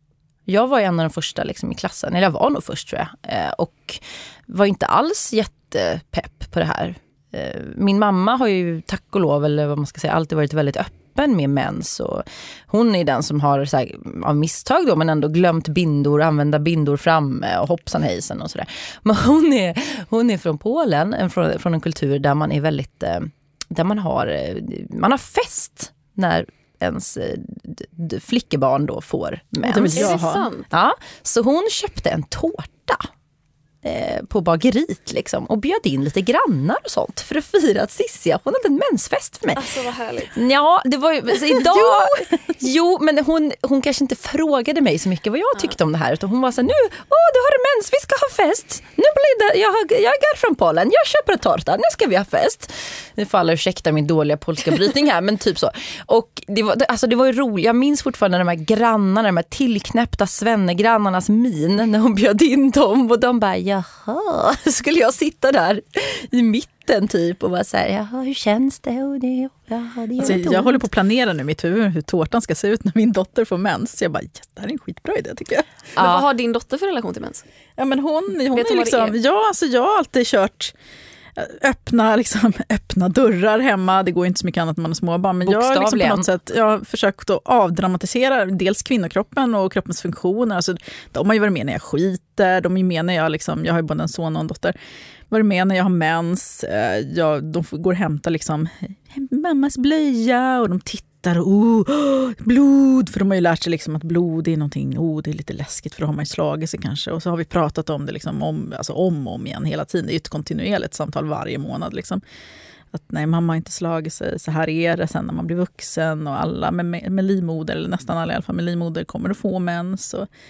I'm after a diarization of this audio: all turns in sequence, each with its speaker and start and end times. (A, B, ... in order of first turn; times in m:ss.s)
0:00.4-0:33.1 A
0:29.6-0:30.4 B
0:29.9-0:30.6 C
0:33.8-0:39.7 A
0:39.6-0:40.3 C
0:40.3-1:10.8 A
0:41.7-0:42.1 B
1:10.2-1:15.7 B
1:16.0-1:16.2 A
1:16.0-1:17.4 C
1:17.8-1:20.7 B
1:18.5-1:19.2 C
1:21.4-1:34.7 B
1:25.4-1:26.3 A
1:35.3-1:52.2 B
1:52.9-2:00.3 B